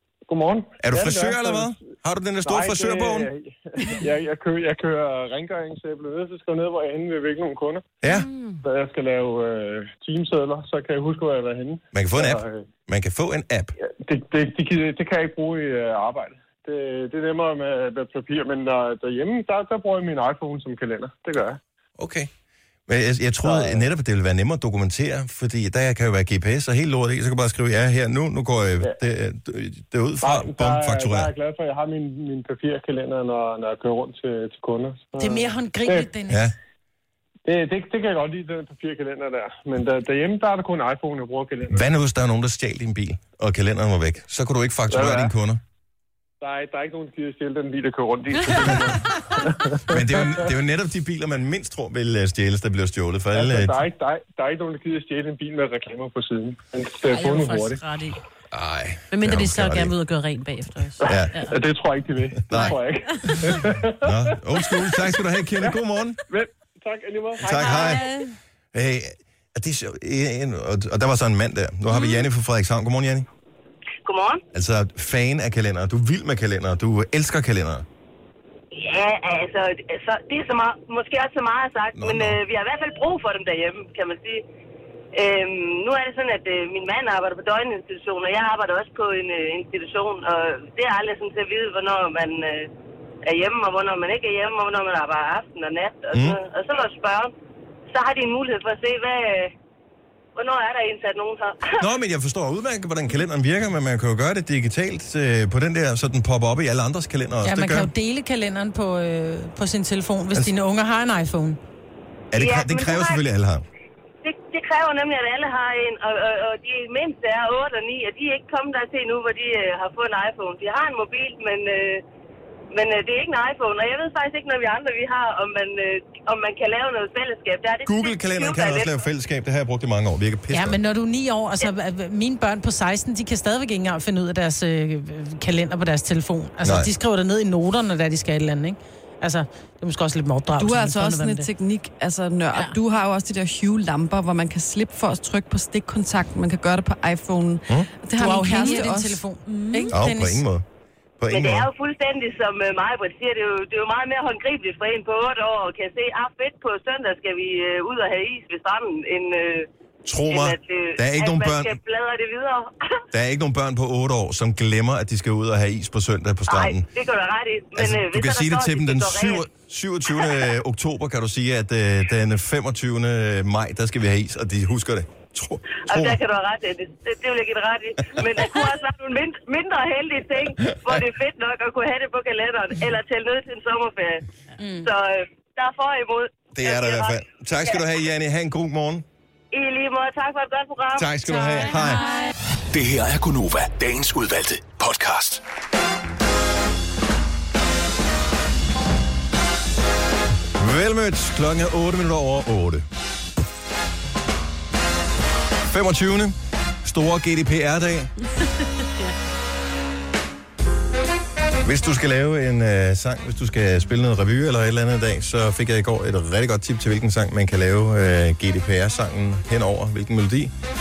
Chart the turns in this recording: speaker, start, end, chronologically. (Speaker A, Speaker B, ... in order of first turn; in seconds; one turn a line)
Speaker A: 0.3-7.9
Speaker B: 0.8-3.3
Speaker B: 8.0-8.3
Speaker C: 8.1-8.6
Speaker A: 8.6-12.7
Speaker B: 11.9-13.8
Speaker A: 13.8-21.6
Speaker B: 22.0-22.3
Speaker B: 22.9-31.3
Speaker A: 23.4-23.9
Speaker A: 30.2-36.1
Speaker D: 35.2-36.4
Speaker B: 36.3-36.5
Speaker A: 37.4-41.9
Speaker B: 41.7-45.6
Speaker A: 44.9-45.3
Speaker A: 46.4-50.5
Speaker B: 49.9-53.8
Speaker A: 53.3-57.8
Speaker C: 57.1-58.2
Speaker B: 58.5-59.9
Speaker C: 59.1-61.6
Speaker A: 61.0-64.9
Speaker B: 61.0-61.4
Speaker B: 62.5-66.2
Speaker C: 62.5-63.6
Speaker A: 65.6-68.0
Speaker B: 67.4-68.1
Speaker C: 67.5-68.3
Speaker B: 68.7-73.3
Speaker E: 74.0-74.4
Speaker B: 74.5-77.8
Speaker E: 78.7-84.4
Speaker B: 82.0-82.4
Speaker E: 85.1-92.7
Speaker E: 93.2-97.3
Speaker B: 96.1-96.4
Speaker E: 97.9-99.5
Speaker E: 100.3-101.8
Speaker B: 101.8-107.9
Speaker D: 107.4-111.6
Speaker B: 112.3-113.6
Speaker E: 112.3-113.2
Speaker E: 114.2-122.0
Speaker E: 122.7-128.9
Speaker B: 127.8-130.8
Speaker D: 130.5-141.5
Speaker B: 136.6-136.9
Speaker F: 140.6-149.2
Speaker D: 148.2-150.4
Speaker C: 148.5-148.9
Speaker C: 149.4-149.9
Speaker B: 149.9-150.6
Speaker B: 151.2-151.7
Speaker E: 151.3-159.7
Speaker B: 160.0-161.8
Speaker E: 160.3-163.0
Speaker B: 163.1-166.9
Speaker E: 166.5-169.4
Speaker B: 167.7-176.2
Speaker E: 170.1-170.5
Speaker E: 175.8-184.2
Speaker B: 180.6-181.0
Speaker D: 184.6-184.9
Speaker E: 184.8-187.8
Speaker B: 186.5-189.0
Speaker E: 189.5-191.1
Speaker B: 190.9-192.1
Speaker D: 191.3-192.0
Speaker G: 192.7-195.4
Speaker B: 200.6-202.8
Speaker B: 205.7-208.1
Speaker C: 208.8-209.1
Speaker B: 211.6-220.5